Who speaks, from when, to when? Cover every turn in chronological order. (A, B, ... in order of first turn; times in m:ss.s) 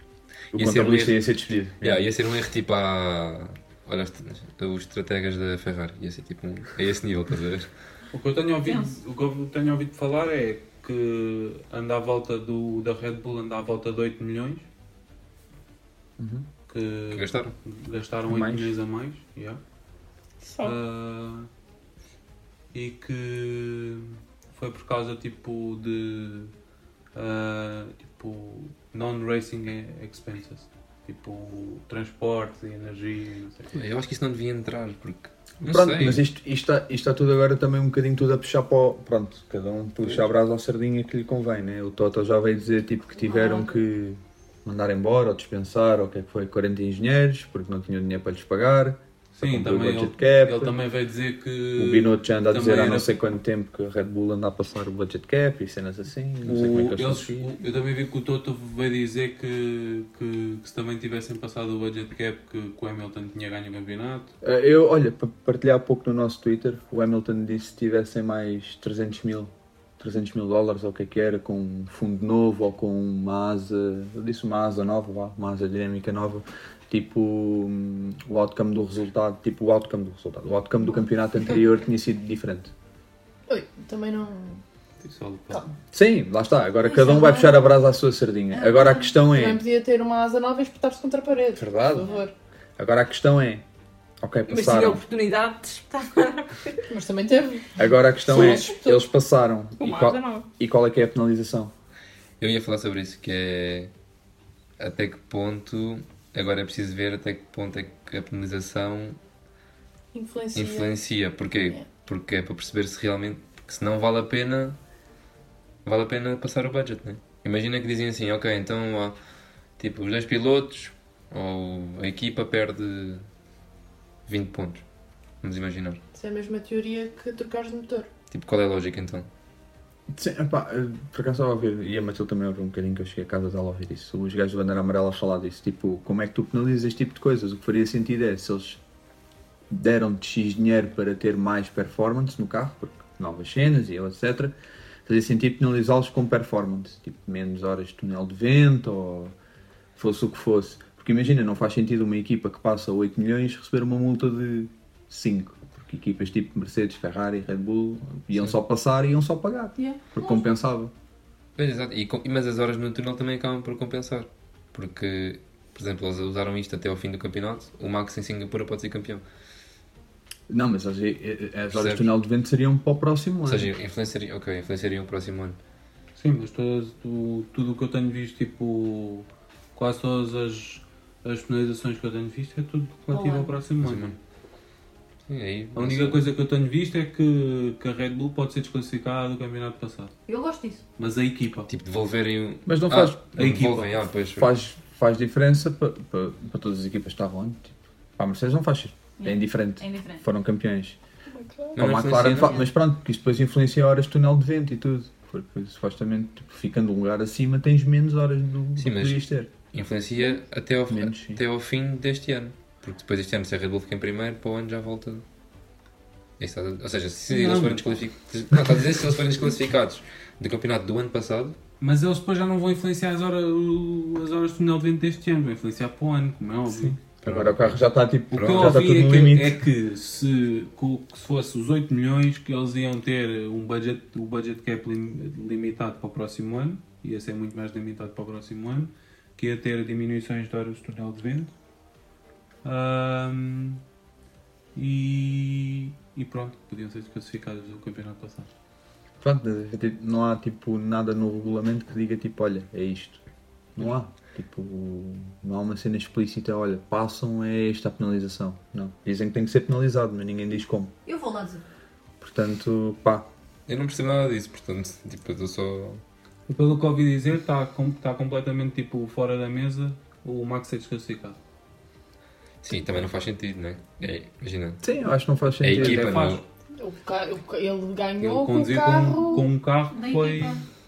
0:00.5-0:01.3 A
0:00.5-0:02.1 B
0:01.8-0:07.7 A
0:08.1-0:14.6 C
0:16.2-0:16.4 B
0:16.7-0:19.6 C
0:17.1-0:17.5 A
0:18.3-0:18.7 B
0:20.4-0:20.8 D
0:20.6-0:21.5 C
0:22.7-0:26.5 C
0:27.1-0:33.8 C
0:33.7-0:36.2 A
0:35.7-0:50.8 B
0:43.2-0:43.7 E
0:49.3-0:53.2 C
0:51.8-0:57.5 B
0:56.4-1:04.3 C
1:04.4-1:22.7 B
1:23.5-1:24.6 F
1:25.0-1:25.6 C
1:25.9-1:29.6 B
1:26.8-1:27.7 E
1:28.5-1:29.1 E
1:29.2-1:32.3 F
1:31.6-1:32.1 B
1:32.8-1:33.6 B
1:34.2-1:35.0 B
1:34.5-1:36.8 D
1:36.9-1:37.7 F
1:37.8-1:41.7 B
1:38.3-1:38.7 F
1:38.3-1:39.0 D
1:39.8-1:40.4 D
1:42.4-1:43.9 A
1:44.8-1:49.2 A
1:50.1-1:50.9 F
1:50.5-1:54.8 A
1:55.8-1:59.2 A
1:59.8-2:03.2 A
2:04.2-2:04.8 A
2:05.4-2:06.0 A
2:06.1-2:08.1 F
2:08.3-2:09.3 A
2:10.1-2:18.8 B
2:19.7-2:24.5 B
2:25.0-2:29.3 B
2:30.0-2:40.9 B
2:39.8-2:40.4 E
2:41.6-2:49.2 A
2:50.5-2:53.7 B
2:51.7-2:52.1 A
2:53.4-2:55.6 A
2:56.2-3:04.2 C
3:03.1-3:03.5 E
3:03.8-3:04.1 A
3:05.3-3:06.2 A
3:05.7-3:10.1 C
3:10.3-3:10.8 E
3:11.0-3:11.7 C
3:11.7-3:14.5 A
3:12.6-3:13.2 B
3:13.3-3:14.0 C
3:14.4-3:21.0 B
3:19.2-3:20.2 E
3:21.3-3:21.8 F
3:21.8-3:22.6 A
3:21.8-3:29.5 B
3:28.8-3:35.2 A
3:30.9-3:31.4 B
3:36.4-3:41.6 A
3:37.3-3:38.0 C
3:41.8-3:47.1 C
3:46.8-3:49.6 B
3:47.2-3:47.8 A
3:48.3-3:48.8 A
3:48.4-4:01.5 C
4:02.6-4:03.8 C
4:04.7-4:08.5 C
4:09.2-4:13.2 B
4:13.8-4:20.9 B
4:21.0-4:21.6 E
4:22.2-4:23.3 B
4:23.7-4:26.0 A
4:26.5-4:31.4 C
4:32.6-4:34.8 A
4:34.8-4:36.2 B
4:35.6-4:36.4 A
4:35.7-4:36.4 C
4:36.8-4:39.4 F
4:38.2-4:40.6 C
4:39.2-4:40.6 E